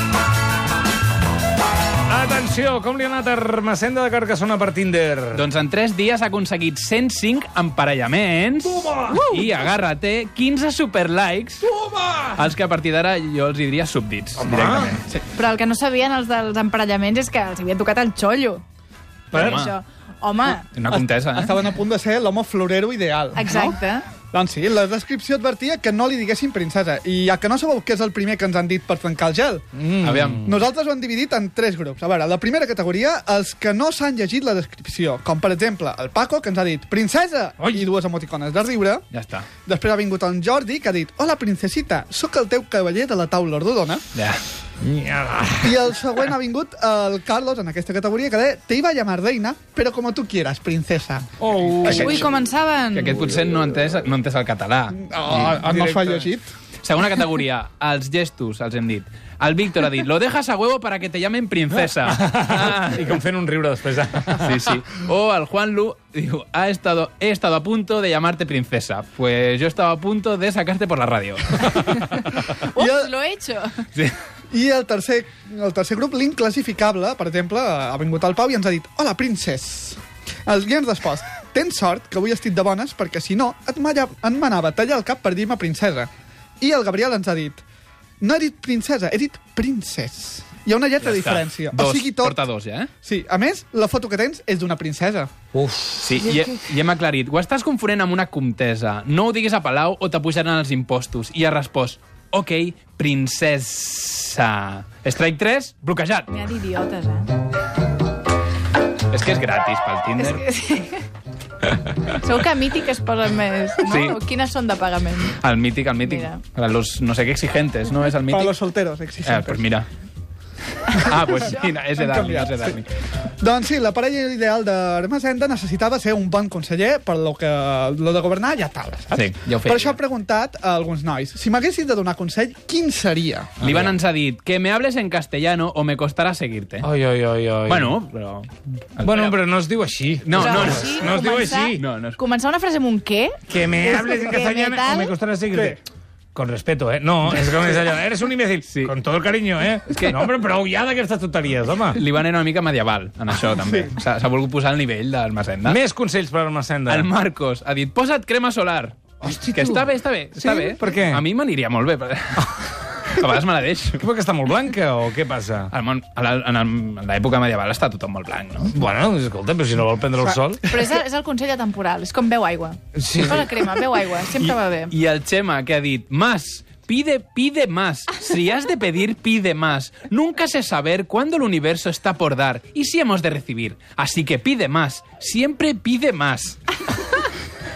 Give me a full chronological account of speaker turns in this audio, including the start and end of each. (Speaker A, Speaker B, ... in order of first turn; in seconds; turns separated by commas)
Speaker A: 2.1-5.4, Speaker B: 5.3-11.7, Speaker A: 8.6-9.3, Speaker A: 11.6-12.4, Speaker B: 12.3-15.0, Speaker A: 14.4-15.0, Speaker C: 15.4-18.6, Speaker A: 19.3-19.7, Speaker B: 19.3-19.7, Speaker C: 19.7-20.4, Speaker B: 20.7-21.5, Speaker D: 20.9-29.7, Speaker C: 23.7-24.0, Speaker A: 29.7-30.5, Speaker B: 30.0-30.4, Speaker D: 30.4-39.0, Speaker B: 39.1-39.5, Speaker D: 39.6-44.0, Speaker B: 44.1-44.4, Speaker A: 44.8-45.9, Speaker D: 45.6-52.3, Speaker A: 51.4-52.3, Speaker B: 51.8-52.2, Speaker C: 52.1-53.0, Speaker B: 52.9-56.2, Speaker D: 54.9-56.5, Speaker B: 56.8-63.0, Speaker A: 62.1-64.7, Speaker B: 64.4-72.1, Speaker D: 72.7-73.1, Speaker C: 72.8-73.6, Speaker D: 74.5-87.6, Speaker D: 88.2-92.4, Speaker B: 91.0-92.9, Speaker D: 93.0-95.3, Speaker A: 95.5-96.2, Speaker B: 96.0-106.3, Speaker C: 106.5-107.0, Speaker B: 109.1-110.4, Speaker C: 110.3-110.9, Speaker C: 112.3-115.2, Speaker B: 113.8-114.2, Speaker B: 115.3-118.5, Speaker D: 118.3-119.7, Speaker B: 119.2-119.9, Speaker B: 120.9-122.9, Speaker D: 121.1-122.8, Speaker D: 123.4-133.5, Speaker B: 129.1-130.0, Speaker B: 133.6-136.9, Speaker A: 133.6-133.9, Speaker A: 136.8-138.0, Speaker B: 137.7-139.4, Speaker A: 139.0-141.8, Speaker B: 140.2-141.1, Speaker C: 140.8-143.3, Speaker B: 141.7-142.2, Speaker A: 143.5-145.8, Speaker C: 144.3-145.1, Speaker D: 145.5-145.8, Speaker A: 146.3-152.0, Speaker B: 148.7-148.9, Speaker B: 149.9-150.3, Speaker B: 151.9-155.8, Speaker D: 153.6-153.9, Speaker A: 155.6-157.1, Speaker B: 156.9-164.0, Speaker A: 159.2-161.2, Speaker A: 164.0-165.7, Speaker B: 165.7-168.7, Speaker A: 168.7-170.9, Speaker C: 170.7-172.8, Speaker A: 172.9-173.8, Speaker C: 173.3-174.9, Speaker B: 174.4-186.6